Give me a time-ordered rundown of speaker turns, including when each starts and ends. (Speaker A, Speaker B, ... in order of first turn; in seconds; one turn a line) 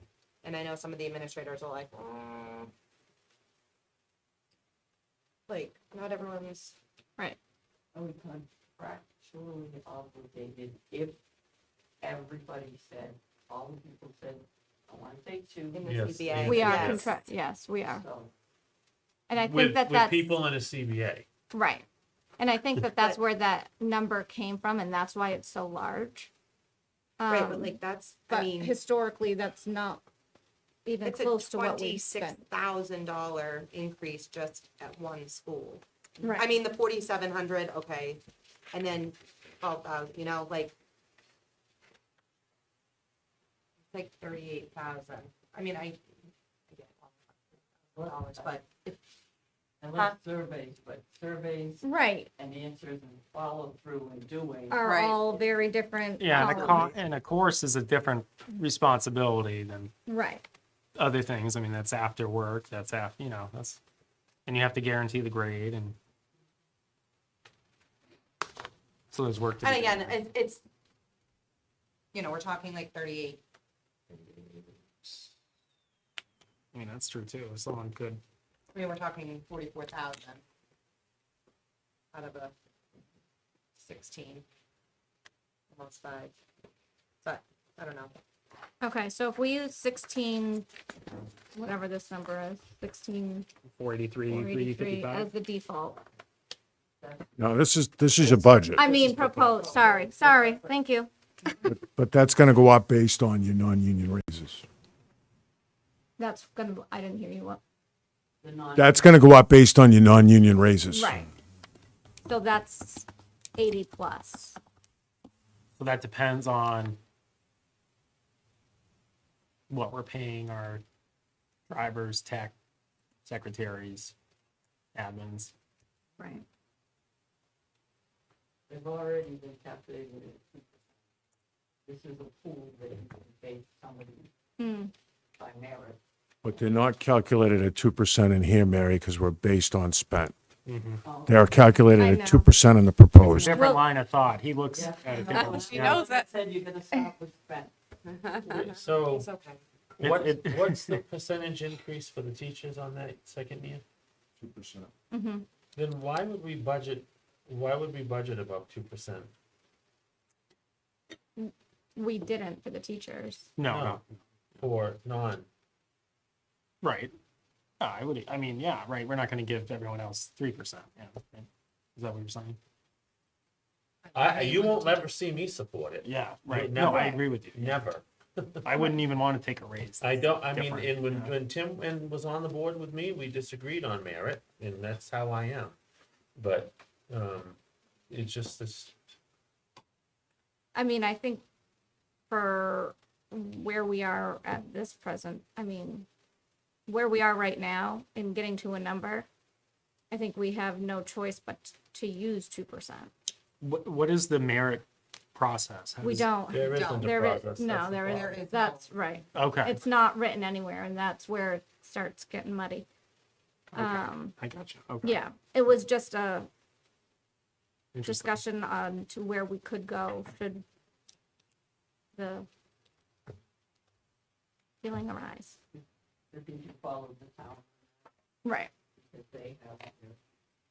Speaker A: 0.4-2.7
Speaker A: 5.5-6.8
Speaker B: 7.9-11.2
Speaker B: 12.0-16.0
Speaker A: 15.7-17.1
Speaker C: 15.8-17.1
Speaker D: 16.4-18.0
Speaker B: 16.5-17.2
Speaker B: 17.8-18.3
Speaker D: 19.3-20.4
Speaker C: 19.3-21.3
Speaker D: 21.5-21.8
Speaker D: 22.4-26.3
Speaker A: 22.9-23.2
Speaker D: 27.2-30.0
Speaker A: 27.3-28.7
Speaker D: 30.9-32.4
Speaker A: 31.0-35.8
Speaker D: 36.2-36.5
Speaker A: 36.4-38.2
Speaker A: 38.7-40.7
Speaker A: 43.9-46.0
Speaker A: 46.7-48.9
Speaker B: 47.9-48.6
Speaker B: 49.8-55.5
Speaker D: 51.8-52.3
Speaker D: 54.7-56.9
Speaker A: 54.8-55.2
Speaker E: 56.2-59.9
Speaker B: 56.3-56.7
Speaker D: 60.1-60.4
Speaker E: 61.0-63.8
Speaker E: 64.5-66.0
Speaker E: 69.1-70.2
Speaker A: 69.6-70.6
Speaker A: 72.1-73.4
Speaker E: 76.7-78.2
Speaker A: 78.7-80.4
Speaker A: 82.1-82.5
Speaker A: 83.8-84.4
Speaker A: 85.7-86.3
Speaker A: 87.2-88.1
Speaker D: 88.8-90.7
Speaker D: 91.5-93.5
Speaker E: 93.7-95.3
Speaker D: 94.3-96.0
Speaker B: 97.0-97.4
Speaker F: 97.4-98.8
Speaker B: 98.2-100.7
Speaker D: 98.7-101.1
Speaker F: 101.7-104.6
Speaker D: 106.2-107.6
Speaker B: 108.4-109.3
Speaker F: 108.8-111.2
Speaker D: 110.9-111.3
Speaker D: 112.2-114.6
Speaker E: 115.8-117.0
Speaker E: 119.7-120.8
Speaker E: 121.7-122.5
Speaker E: 123.2-124.1
Speaker E: 124.9-125.5
Speaker D: 126.2-126.4
Speaker B: 128.7-130.8
Speaker B: 131.9-134.3
Speaker D: 134.6-134.9
Speaker B: 135.4-136.0
Speaker F: 136.4-140.3
Speaker E: 140.7-141.0
Speaker B: 141.0-141.8
Speaker F: 141.2-143.6
Speaker D: 142.0-142.5
Speaker E: 143.2-146.1
Speaker D: 143.5-143.8
Speaker B: 144.7-147.7
Speaker B: 148.3-148.7
Speaker C: 148.4-149.3
Speaker A: 149.1-149.6
Speaker C: 150.0-153.8
Speaker E: 150.0-151.0
Speaker F: 154.4-154.9
Speaker D: 155.1-155.4
Speaker C: 155.7-159.3
Speaker D: 161.4-163.5
Speaker E: 163.6-164.1
Speaker C: 163.6-164.0
Speaker C: 164.6-165.5
Speaker E: 166.8-167.1
Speaker E: 167.8-172.6
Speaker C: 174.1-178.8
Speaker A: 174.2-175.0
Speaker E: 176.0-177.7
Speaker E: 178.6-181.3
Speaker C: 180.0-185.7
Speaker C: 186.4-187.6
Speaker C: 188.1-188.9
Speaker D: 190.7-191.4
Speaker D: 192.3-196.1
Speaker D: 196.9-199.3
Speaker D: 200.1-203.1
Speaker E: 203.6-206.3
Speaker D: 206.0-212.8
Speaker C: 206.5-208.4
Speaker A: 206.7-207.1
Speaker A: 208.1-208.9
Speaker E: 209.3-209.8
Speaker D: 213.7-214.3
Speaker E: 213.7-215.2
Speaker D: 215.0-216.5
Speaker E: 217.9-218.4
Speaker D: 218.0-220.6
Speaker D: 222.2-222.5
Speaker D: 224.8-225.6
Speaker B: 226.3-227.9
Speaker D: 228.4-228.7
Speaker B: 229.0-230.2